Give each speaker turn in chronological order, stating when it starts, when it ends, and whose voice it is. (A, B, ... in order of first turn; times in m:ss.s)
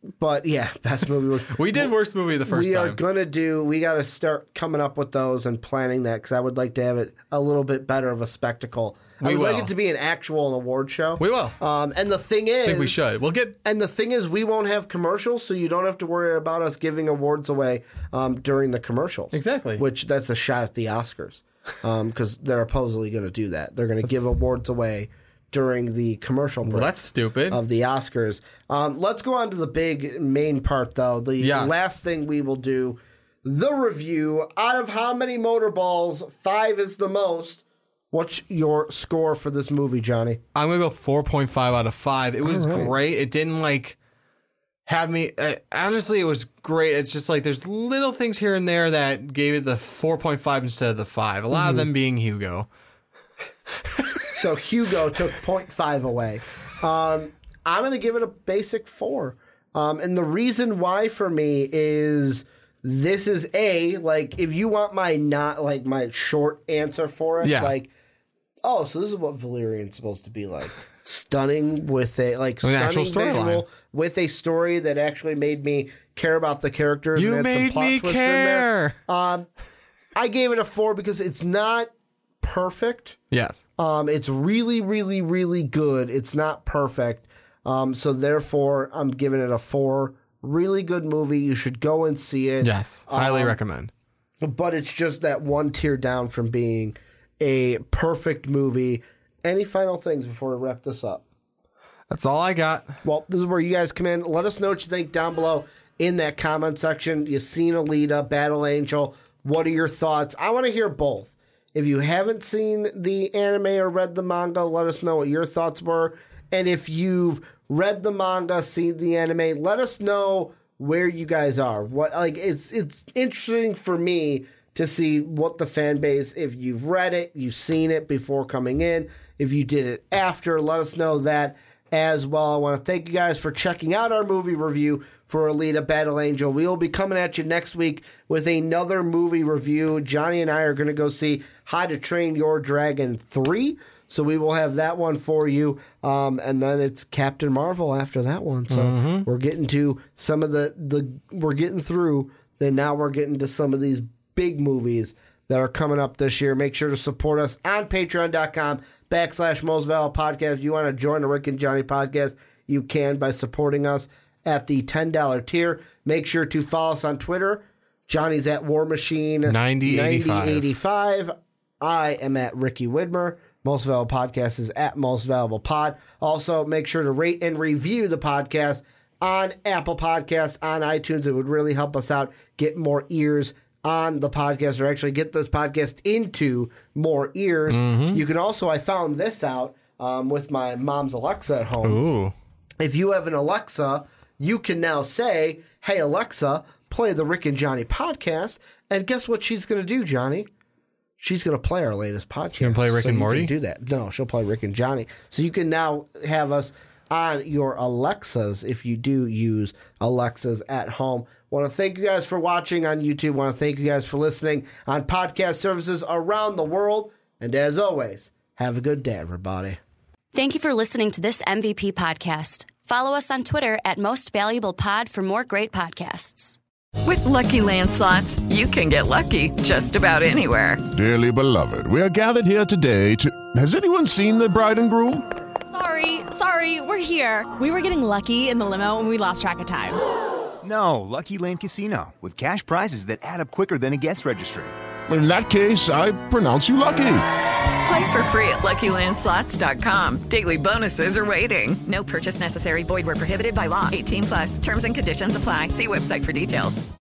0:00.2-0:01.9 A
0:01.5-0:03.0 B
0:02.5-0:13.0 A
0:09.2-0:09.7 B
0:11.2-0:11.6 B
0:12.6-0:13.6 B
0:13.6-0:26.9 A
0:19.3-0:19.8 B
0:26.6-0:27.6 B
0:27.5-0:40.4 A
0:31.4-0:31.9 B
0:40.6-0:44.0 B
0:42.4-0:42.9 A
0:44.9-0:52.7 B
0:51.5-0:51.8 A
0:53.8-0:54.3 B
0:54.3-1:07.9 A
1:07.4-1:07.8 B
1:08.6-1:19.5 A
1:12.6-1:13.7 B
1:17.2-1:19.0 B
1:20.2-1:23.2 A
1:23.3-1:23.6 B
1:23.8-1:33.6 A
1:32.6-1:33.9 B
1:34.4-1:41.2 A
1:42.1-1:43.0 B
1:43.0-3:12.0 A
2:28.7-2:29.3 B
2:49.5-2:50.7 B
3:07.7-3:08.2 B
3:11.8-3:12.3 B
3:12.8-3:20.5 A
3:21.2-3:39.8 A
3:22.6-3:23.5 B
3:40.3-3:46.6 C
3:47.0-3:50.9 D
3:50.9-3:55.3 E
3:55.7-4:00.0 F
4:00.6-4:04.7 G
4:05.1-4:07.2 E
4:07.8-4:16.8 D